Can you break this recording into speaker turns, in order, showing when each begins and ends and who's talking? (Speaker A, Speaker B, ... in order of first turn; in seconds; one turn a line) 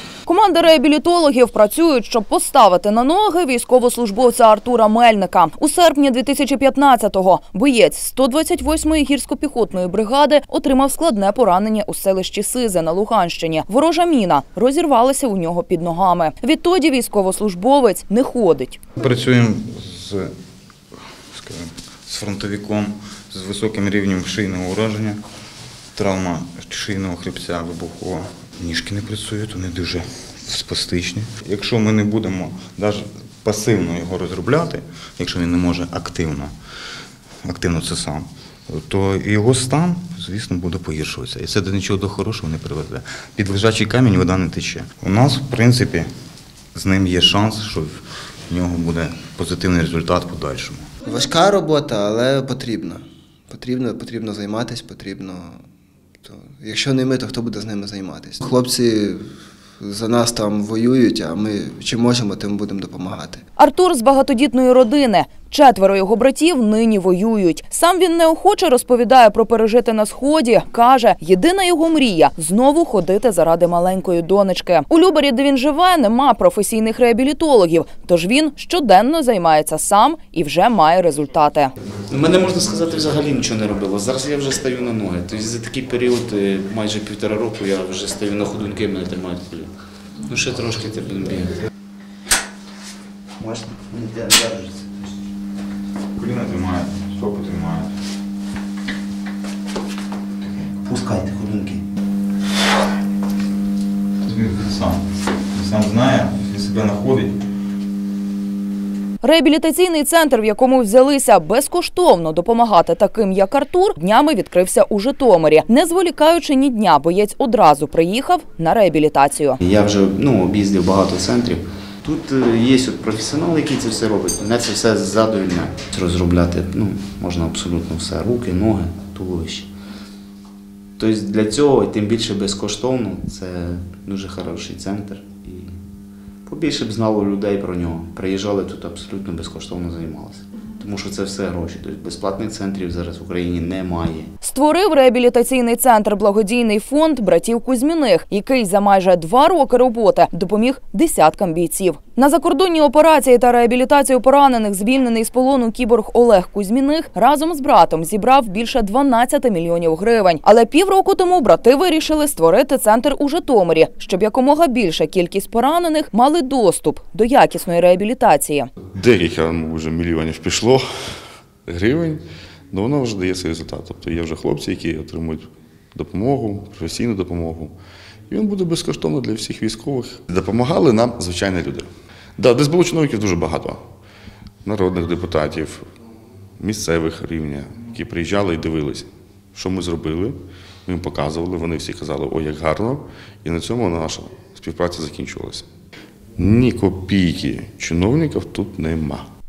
Speaker A: 0.2-18.8
Speaker B: 19.0-20.3
Speaker B: 21.3-25.2
Speaker B: 25.9-36.5
Speaker B: 37.4-46.1
Speaker B: 46.7-50.9
Speaker C: 51.0-55.6
Speaker C: 56.2-59.2
Speaker C: 59.8-63.4
Speaker A: 63.6-81.7
Speaker D: 82.1-89.7
Speaker D: 90.2-91.6
Speaker D: 93.4-95.1
Speaker B: 96.2-97.9
Speaker D: 100.8-101.8
Speaker B: 104.2-107.4
Speaker A: 109.2-119.6
Speaker D: 119.6-129.7
Speaker D: 131.0-135.8
Speaker D: 136.4-144.3
Speaker A: 144.4-168.7
Speaker E: 168.9-170.8
Speaker E: 171.7-177.7
Speaker E: 178.3-183.8
Speaker E: 184.6-185.8
Speaker E: 186.6-195.7
Speaker E: 196.4-199.3